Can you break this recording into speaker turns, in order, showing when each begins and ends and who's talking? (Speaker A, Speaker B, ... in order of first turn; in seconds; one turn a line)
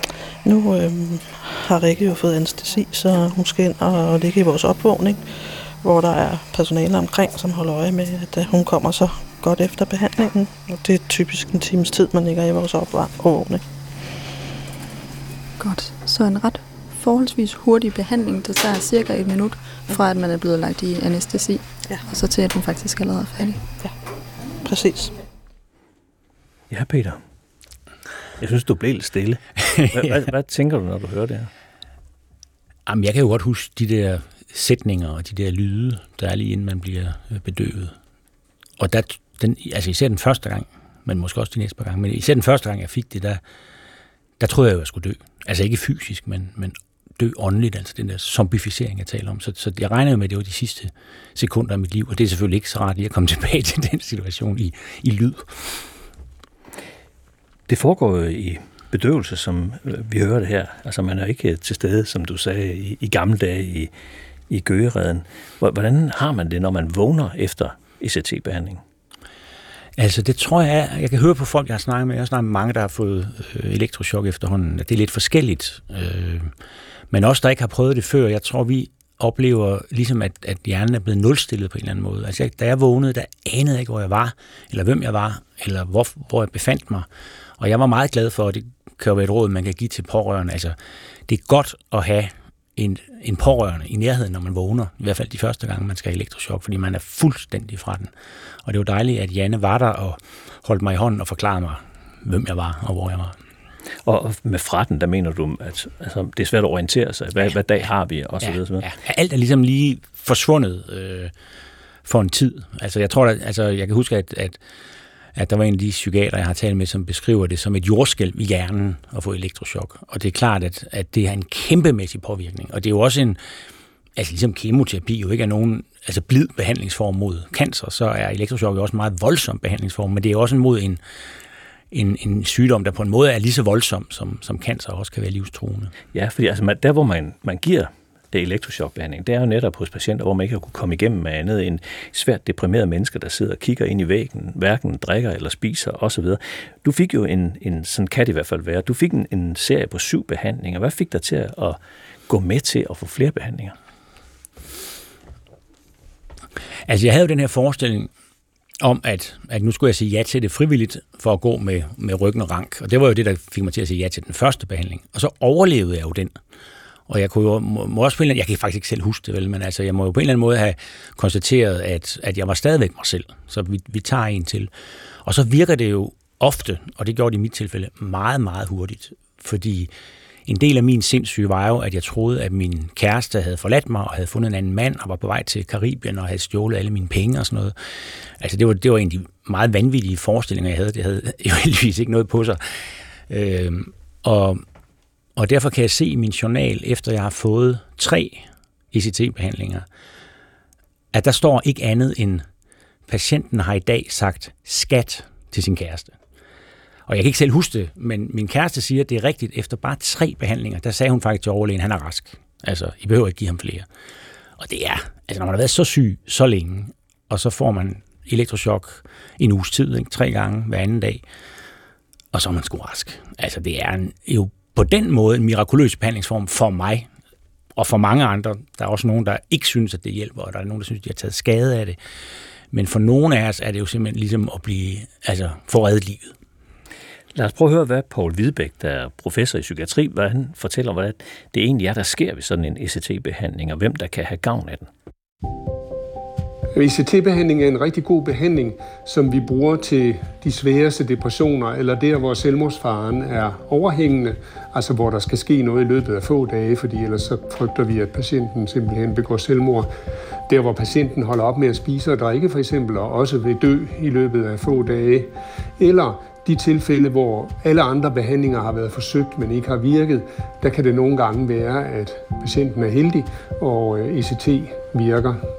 Speaker A: 0.4-13.7
Speaker B: 15.6-23.7
Speaker A: 24.6-25.2
Speaker C: 26.7-27.2
Speaker C: 28.4-31.5
Speaker D: 29.8-30.1
Speaker D: 32.9-38.0
Speaker D: 38.8-43.4
Speaker D: 44.4-55.8
Speaker C: 57.7-63.9
Speaker C: 64.5-68.8
Speaker D: 70.0-76.5
Speaker D: 77.1-87.1
Speaker D: 87.6-90.8
Speaker D: 91.3-98.1
Speaker D: 98.7-103.4
Speaker C: 104.0-108.9
Speaker D: 108.4-111.3
Speaker D: 112.0-114.6
Speaker D: 115.3-123.4
Speaker D: 124.2-131.0
Speaker D: 131.9-135.9
Speaker C: 136.1-153.8
Speaker D: 156.9-158.1
Speaker D: 158.8-166.3
Speaker D: 167.1-174.7
Speaker D: 175.2-179.9
Speaker D: 180.5-187.7
Speaker D: 188.4-192.6
Speaker D: 193.3-194.6
Speaker D: 195.4-199.8
Speaker D: 201.1-202.4
Speaker D: 203.1-206.2
Speaker D: 207.1-213.9
Speaker D: 214.6-221.2
Speaker D: 222.3-227.1
Speaker D: 227.8-232.0
Speaker D: 232.7-236.3
Speaker C: 237.3-244.9
Speaker E: 246.7-259.9
Speaker E: 260.5-275.4